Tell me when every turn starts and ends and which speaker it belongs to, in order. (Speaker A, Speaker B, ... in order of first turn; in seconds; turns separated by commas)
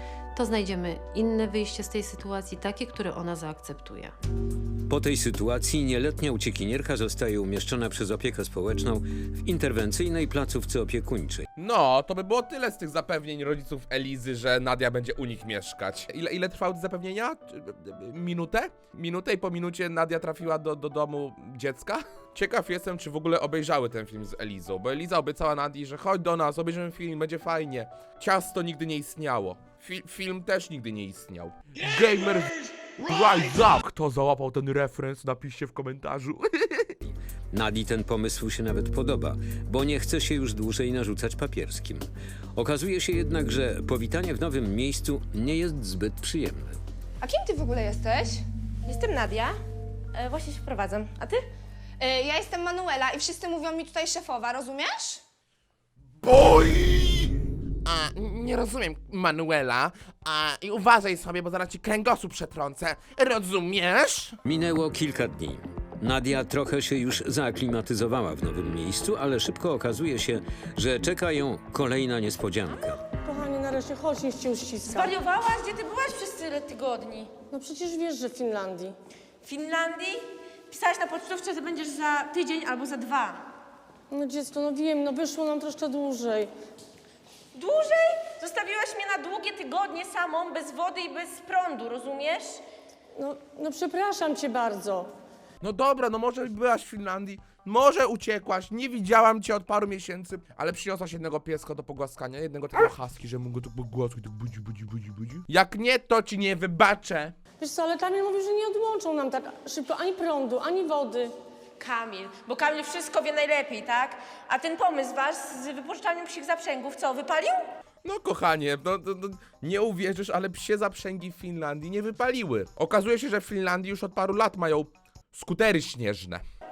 Speaker A: 0.3-4.1, Speaker B: 4.9-11.4, Speaker C: 11.6-36.9, Speaker B: 37.5-46.8, Speaker D: 47.2-48.4, Speaker E: 48.9-49.6, Speaker E: 50.1-51.4, Speaker D: 52.0-55.2, Speaker C: 56.2-57.3, Speaker C: 57.8-64.4, Speaker B: 64.4-73.0, Speaker F: 73.2-75.1, Speaker E: 74.9-77.3, Speaker F: 77.5-78.9, Speaker E: 79.4-83.5, Speaker F: 84.1-86.5, Speaker E: 87.5-92.6, Speaker F: 93.2-95.1, Speaker C: 95.6-107.3, Speaker F: 107.6-111.3, Speaker E: 111.8-117.6, Speaker C: 118.0-126.4